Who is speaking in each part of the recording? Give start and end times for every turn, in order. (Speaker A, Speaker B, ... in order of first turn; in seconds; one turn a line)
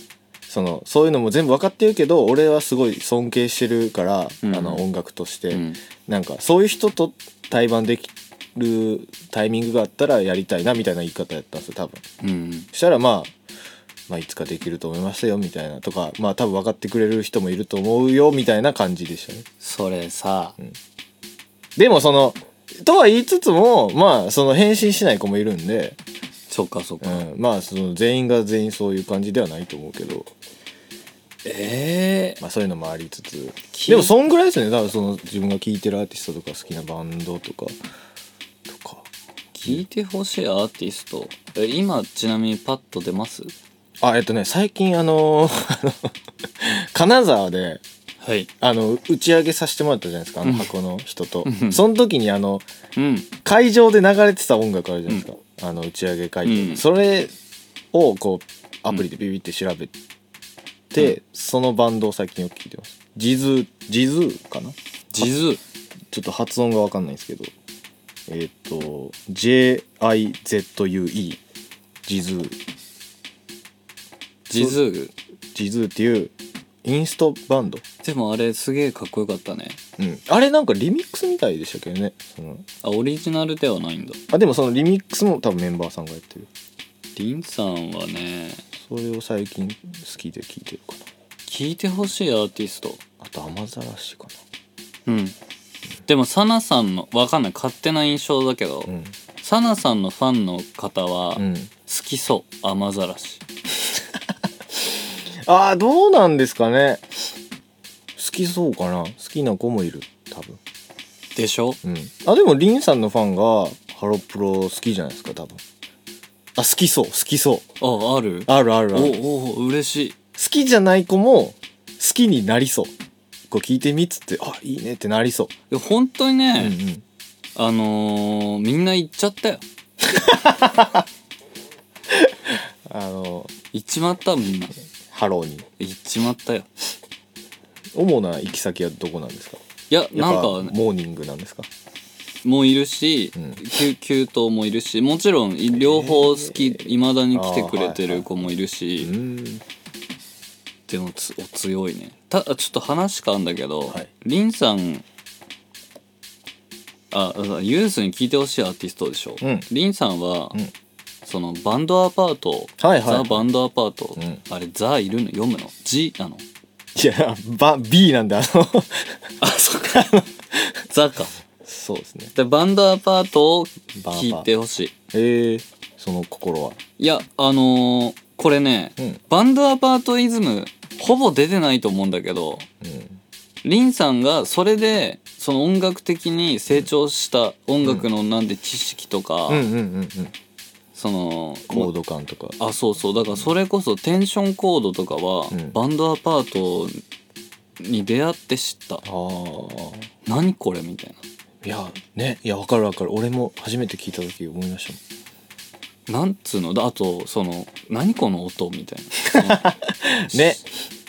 Speaker A: 0.5-12.0
Speaker B: 4.4-4.8
Speaker B: 5.5-5.8
Speaker B: 12.2-12.7
Speaker A: 12.7-13.3
Speaker A: 14.1-19.4
Speaker B: 19.6-20.6
Speaker A: 21.8-26.0
Speaker B: 26.5-27.2
Speaker A: 27.0-30.3
Speaker B: 31.4-32.4
Speaker A: 32.4-37.8
Speaker B: 33.7-34.1
Speaker A: 38.6-39.0
Speaker B: 39.5-43.5
Speaker A: 44.0-47.8
Speaker B: 48.2-48.5
Speaker A: 48.6-52.7
Speaker B: 50.4-50.7
Speaker B: 51.4-51.8
Speaker B: 53.0-53.3
Speaker A: 53.4-57.3
Speaker B: 56.4-56.8
Speaker A: 57.9-59.9
Speaker A: 60.9-65.3
Speaker B: 65.1-65.6
Speaker A: 66.1-67.5
Speaker A: 68.3-71.4
Speaker A: 72.0-72.6
Speaker B: 74.5-75.1
Speaker A: 74.5-74.8
Speaker A: 75.5-76.3
Speaker A: 76.8-77.8
Speaker B: 78.0-79.8
Speaker A: 80.0-82.6
Speaker B: 82.8-84.2
Speaker A: 84.3-86.5
Speaker B: 87.2-88.6
Speaker A: 88.8-91.0
Speaker B: 91.5-93.0
Speaker A: 93.2-94.4
Speaker B: 95.0-95.3
Speaker B: 96.0-103.4
Speaker A: 98.9-99.1
Speaker A: 101.4-101.7
Speaker A: 104.8-107.1
Speaker A: 108.2-110.6
Speaker B: 111.3-111.8
Speaker A: 111.8-115.6
Speaker A: 116.6-117.6
Speaker B: 117.8-120.2
Speaker A: 118.5-119.2
Speaker A: 120.4-122.9
Speaker A: 123.5-125.5
Speaker B: 125.7-126.8
Speaker A: 126.6-127.0
Speaker B: 127.5-129.6
Speaker A: 130.1-131.0
Speaker A: 132.1-133.5
Speaker B: 133.7-134.7
Speaker A: 135.1-135.6
Speaker B: 135.8-136.7
Speaker A: 137.9-139.6
Speaker B: 139.9-140.7
Speaker A: 140.1-141.7
Speaker B: 142.4-149.1
Speaker A: 143.4-143.6
Speaker A: 145.7-148.4
Speaker A: 149.0-149.6
Speaker B: 150.9-155.0
Speaker B: 157.1-160.6
Speaker A: 159.4-159.7
Speaker B: 161.2-166.4
Speaker A: 162.8-163.4
Speaker A: 166.9-169.2
Speaker B: 169.4-170.1
Speaker A: 169.8-170.8
Speaker B: 170.9-171.4
Speaker A: 171.6-172.3
Speaker B: 172.3-174.9
Speaker A: 174.0-174.5
Speaker A: 175.1-176.8
Speaker B: 177.0-182.7
Speaker A: 182.8-183.2
Speaker B: 183.6-189.7
Speaker A: 189.5-190.3
Speaker B: 190.9-191.9
Speaker A: 191.7-192.6
Speaker B: 192.6-197.0
Speaker A: 195.5-195.8
Speaker B: 197.8-199.0
Speaker A: 199.0-200.1
Speaker B: 200.2-201.2
Speaker A: 201.6-205.0
Speaker B: 206.1-209.7
Speaker A: 209.4-210.6